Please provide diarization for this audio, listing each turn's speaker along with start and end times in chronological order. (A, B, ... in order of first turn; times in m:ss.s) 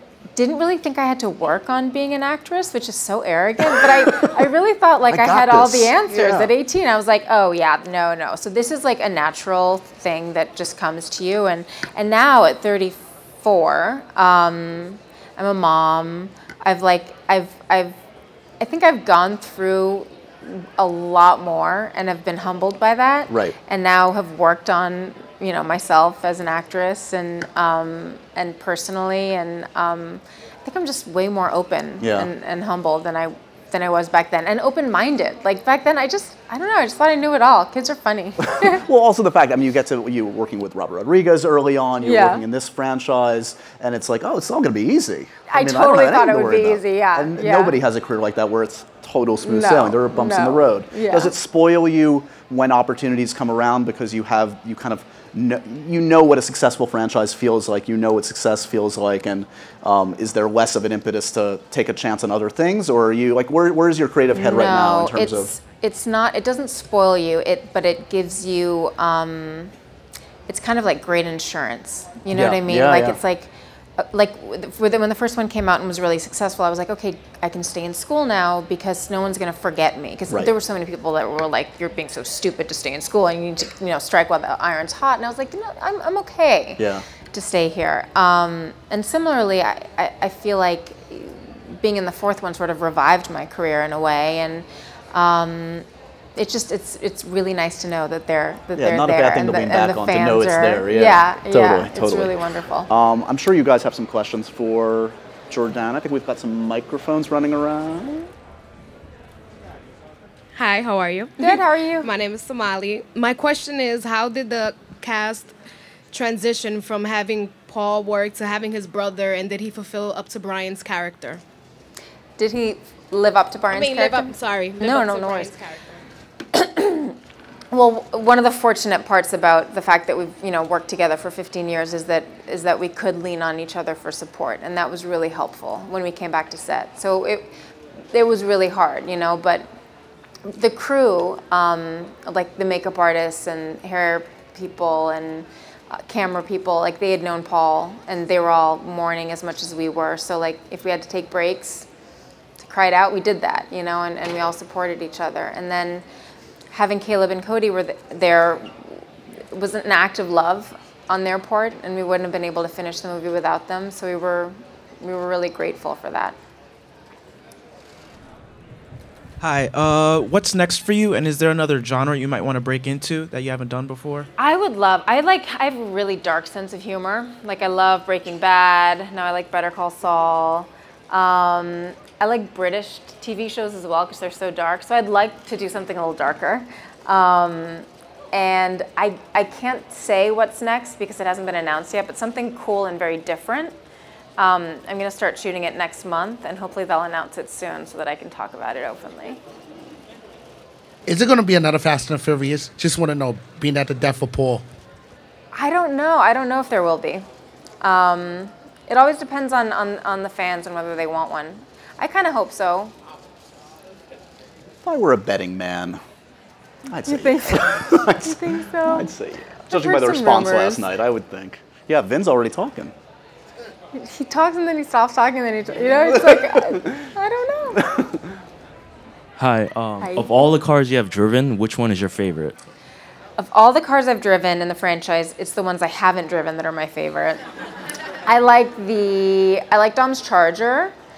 0:00.4-0:18.0 A
0:05.1-0:06.5 B
0:18.6-0:38.8 A
0:23.3-0:23.6 B
0:32.0-0:32.3 B
0:38.6-1:05.5 B
0:42.0-0:42.4 A
0:45.5-0:47.8 A
0:49.4-0:51.3 A
1:04.3-1:09.7 A
1:10.5-1:42.9 A
1:12.3-1:13.2 B
1:26.8-1:27.0 B
1:38.7-1:42.3 B
1:42.9-1:48.3 B
1:50.6-1:55.5 C
1:51.4-1:52.1 A
1:56.1-2:01.4 C
2:02.4-2:05.6 A
2:03.7-2:06.0 C
2:06.5-2:07.1 A
2:07.7-2:17.5 A
2:18.1-2:19.7 A
2:20.5-2:31.9 A
2:32.6-2:36.0 A
2:36.7-2:38.8 A
2:39.5-2:46.4 A
2:49.4-2:54.3 D
2:54.4-3:13.7 A
3:14.4-3:19.4 A
3:21.1-3:24.6 E
3:25.5-3:27.2 A
3:27.8-3:32.9 A
3:34.8-3:36.0 B
3:36.9-3:42.9 B
3:37.1-3:39.1 A
3:39.7-3:40.9 A
3:43.9-3:47.8 A
3:46.3-3:46.9 B
3:47.8-3:48.2 B
3:49.4-3:52.6 F
3:50.0-3:50.4 A
3:53.4-3:57.4 A
3:58.2-4:00.9 A